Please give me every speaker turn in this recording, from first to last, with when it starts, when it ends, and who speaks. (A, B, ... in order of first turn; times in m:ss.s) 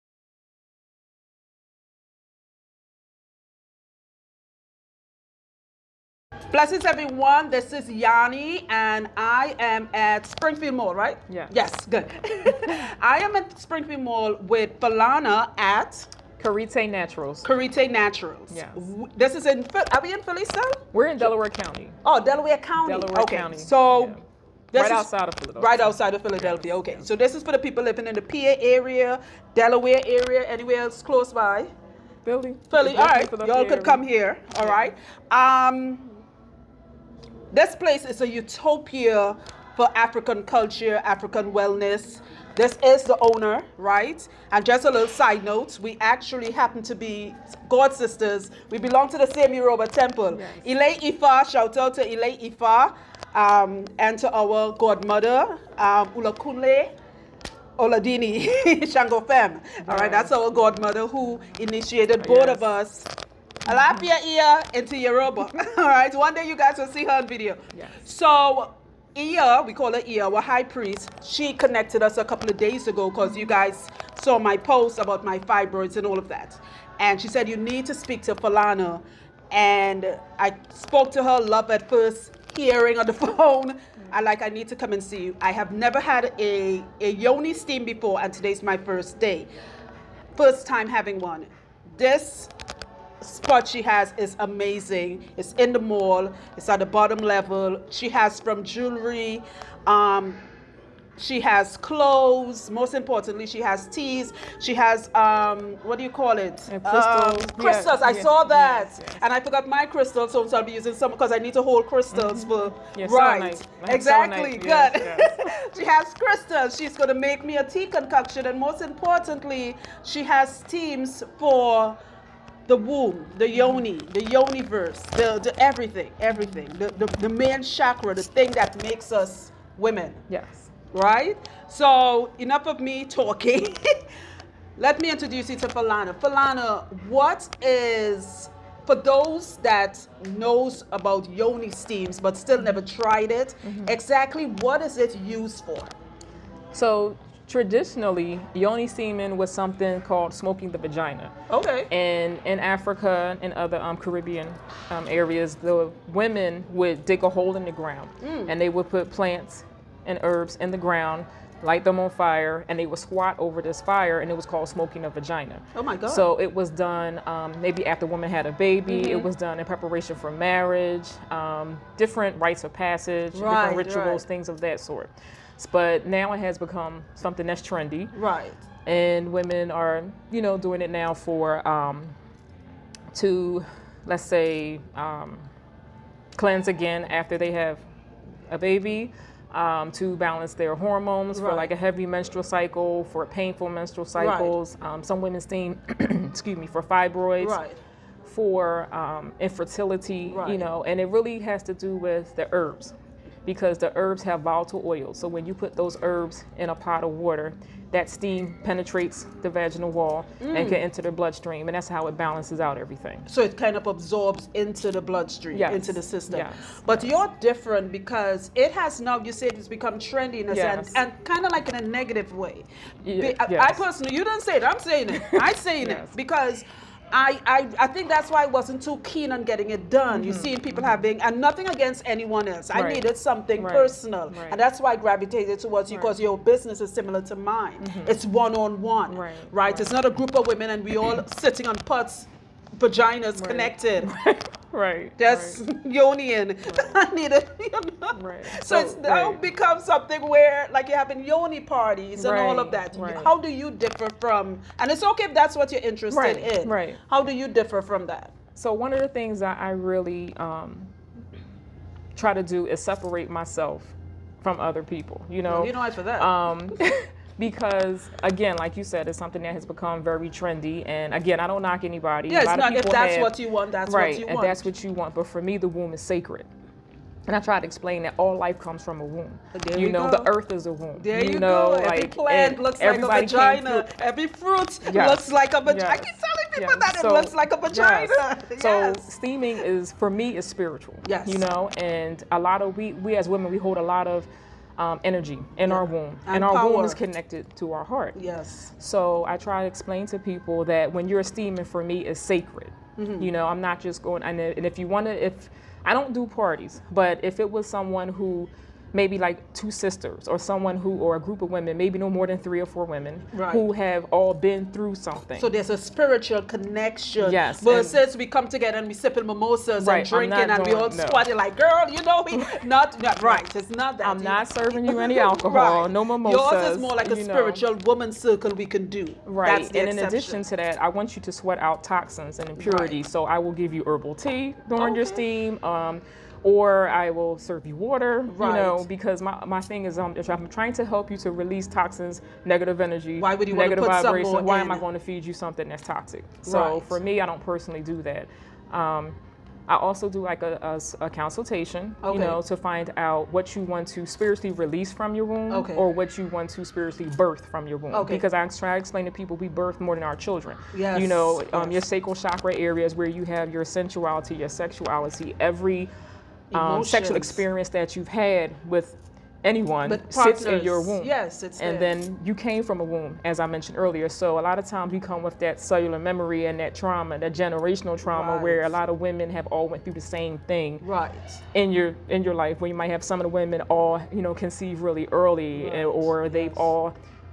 0:06.5-0:16.1 A
0:16.4-0:17.5 B
0:17.4-0:21.3 A
0:18.5-0:18.8 B
0:20.9-0:22.0 B
0:22.0-0:24.2 A
0:22.8-0:24.2 B
0:24.7-0:31.7 A
0:24.8-0:27.0 B
0:32.2-0:34.0 B
0:32.7-0:36.2 A
0:34.6-0:34.9 B
0:37.5-0:56.9 A
0:50.3-0:50.7 B
0:57.8-1:03.1 A
0:59.9-1:00.8 B
1:02.2-1:02.6 B
1:03.6-1:29.5 A
1:03.7-1:04.0 B
1:30.4-1:32.5 A
1:33.2-1:40.4 A
1:41.2-2:02.0 A
1:46.7-1:49.2 B
1:52.1-1:55.6 B
2:02.7-2:10.2 A
2:03.6-2:03.8 B
2:10.3-2:10.7 B
2:10.9-2:14.0 A
2:14.8-2:25.9 A
2:23.6-2:23.9 B
2:26.7-2:31.3 B
2:31.5-2:31.9 A
2:31.9-2:58.1 B
2:38.2-2:38.5 A
2:45.8-2:46.3 A
2:48.9-2:49.3 A
2:53.3-2:54.2 A
2:58.1-2:58.6 A
2:58.9-3:02.2 B
3:03.1-3:05.5 B
3:06.4-3:07.8 B
3:08.5-3:17.6 B
3:11.3-3:11.7 A
3:14.2-3:14.5 A
3:17.4-3:17.8 A
3:18.3-3:33.3 B
3:20.3-3:20.7 A
3:30.4-3:30.8 A
3:33.3-4:04.1 A
3:35.5-3:37.1 B
3:40.5-3:41.0 B
3:43.0-3:43.8 B
3:45.1-3:46.1 B
3:50.1-3:51.1 B
3:52.7-3:54.6 B
3:57.8-3:58.2 B
3:59.1-4:00.0 B
4:03.4-4:05.6 B
4:05.2-4:18.3 A
4:06.6-4:07.0 B
4:08.1-4:09.4 B
4:12.2-4:13.3 B
4:16.1-4:17.0 B
4:18.6-4:20.9 B
4:22.2-4:33.3 B
4:25.5-4:26.3 A
4:32.3-4:34.7 A
4:33.9-4:36.5 B
4:37.3-4:43.9 B
4:39.5-4:40.3 A
4:41.0-4:49.1 A
4:44.8-4:58.2 B
4:51.0-4:51.4 A
4:55.6-4:57.0 A
4:58.2-4:58.7 A
4:58.8-5:15.5 B
5:03.0-5:03.3 A
5:13.3-5:13.6 A
5:15.4-5:30.4 A
5:17.2-5:18.0 B
5:19.8-5:21.3 B
5:22.3-5:22.6 B
5:24.0-5:27.6 B
5:29.3-5:49.2 B
5:32.6-5:33.0 A
5:34.8-5:35.2 A
5:38.3-5:38.8 A
5:43.2-5:44.8 A
5:46.4-5:47.0 A
5:49.7-6:05.9 B
5:52.0-5:52.4 A
5:55.5-5:55.8 A
5:57.9-5:58.2 A
6:00.7-6:01.8 A
6:06.5-6:07.4 A
6:06.5-6:20.8 B
6:09.8-6:11.9 A
6:18.1-6:18.8 A
6:20.8-6:21.4 A
6:21.5-6:27.0 B
6:25.5-6:26.7 A